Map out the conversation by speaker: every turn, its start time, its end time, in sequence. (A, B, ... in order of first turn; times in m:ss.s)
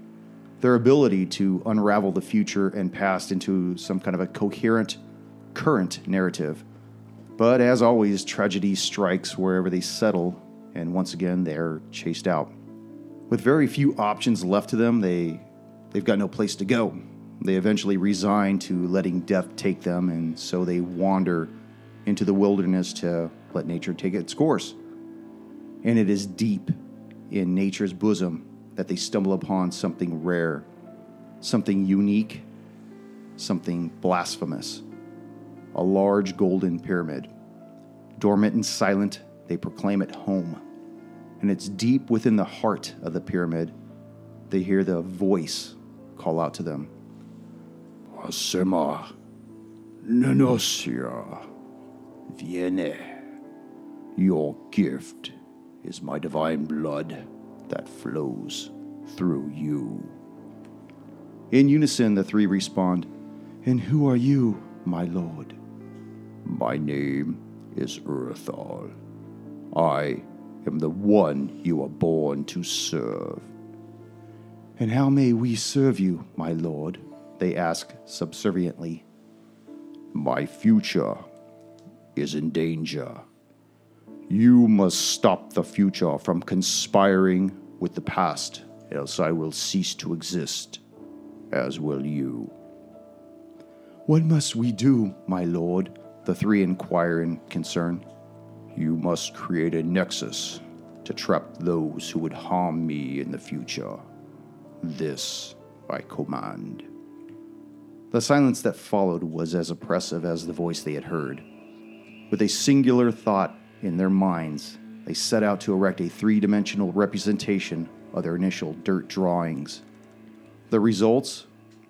0:00.6-0:05.0 A
0:05.5-0:06.6 A
0:07.4-0:12.5 A
0:13.3-0:21.5 A
0:22.0-0:24.8 A
0:25.8-0:26.7 A
0:27.3-0:30.6 A
0:31.4-0:32.4 A
0:33.4-0:34.8 A
0:35.7-0:37.3 A
0:38.2-0:40.6 A
0:41.4-0:43.7 A
0:44.5-0:46.9 A
0:48.1-0:49.1 A
0:50.0-0:51.5 A
0:52.3-0:53.2 A
0:54.2-1:00.1 A
1:01.5-1:03.1 A
1:03.6-1:05.6 A
1:06.4-1:08.9 A
1:09.7-1:13.5 A
1:14.8-1:19.0 A
1:20.1-1:21.2 A
1:22.1-1:23.2 A
1:24.3-1:30.8 A
1:31.5-1:32.5 A
1:34.1-1:38.0 A
1:38.7-1:44.0 A
1:44.8-1:46.9 A
1:48.1-1:51.4 A
1:52.3-1:59.8 A
2:00.7-2:01.5 A